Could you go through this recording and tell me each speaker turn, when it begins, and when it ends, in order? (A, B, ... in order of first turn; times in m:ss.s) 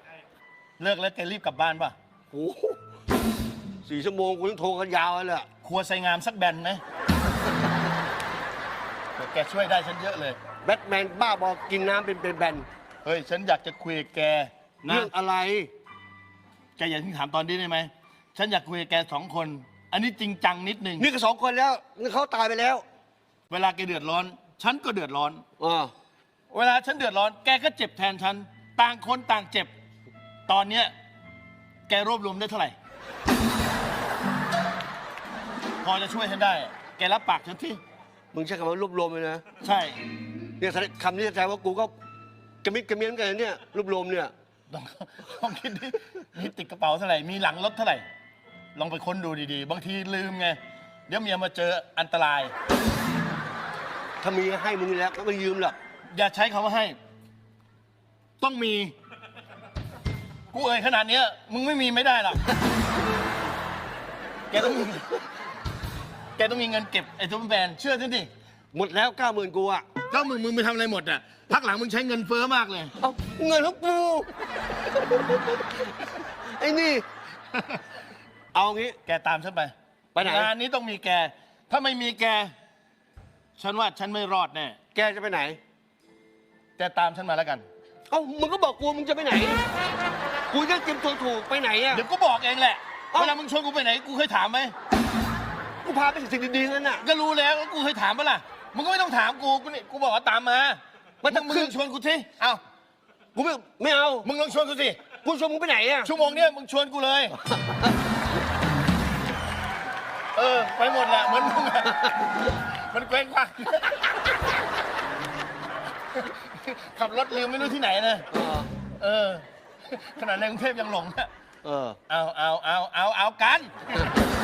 0:00.8-0:01.9 A
0:02.3-0:02.8 B
0:03.8-0:05.5 B
0:05.6-0:06.8 A
0:09.2-0:10.4 A
0:10.6-0:12.6 B
0:13.0-0:15.1 A
0:14.9-0:15.7 B
0:16.8-0:21.1 A
0:21.0-0:22.8 B
0:23.5-0:25.4 A
0:25.6-0:25.9 B
0:26.5-0:29.7 A
0:30.5-0:30.9 A
0:31.9-0:32.7 A
0:35.8-0:37.8 A
0:38.3-0:39.4 B
0:39.6-0:40.0 A
0:40.6-0:41.9 B
0:42.6-0:44.3 B
0:44.7-0:48.0 A
0:48.7-0:52.5 A
0:54.2-0:55.8 B
0:56.1-0:57.0 A
0:58.4-0:58.9 A
1:00.5-1:02.5 A
1:04.5-1:05.2 A
1:06.4-1:08.3 A
1:08.7-1:09.8 B
1:10.1-1:12.9 A
1:13.0-1:14.3 B
1:14.9-1:17.0 B
1:18.5-1:19.0 B
1:19.0-1:22.5 A
1:20.1-1:20.5 B
1:23.6-1:24.8 A
1:24.9-1:25.6 B
1:26.8-1:27.6 A
1:28.1-1:29.6 B
1:30.5-1:32.0 B
1:31.9-1:34.7 A
1:33.1-1:33.4 B
1:35.8-1:37.0 B
1:37.0-1:42.6 A
1:41.2-1:41.7 B
1:43.3-1:44.3 B
1:44.2-1:45.0 A
1:45.2-1:46.1 B
1:46.0-1:47.4 A
1:50.4-1:54.0 A
1:56.2-1:58.3 A
1:58.3-1:58.7 B
1:59.0-2:01.3 A
2:01.6-2:02.0 B
2:02.1-2:04.0 A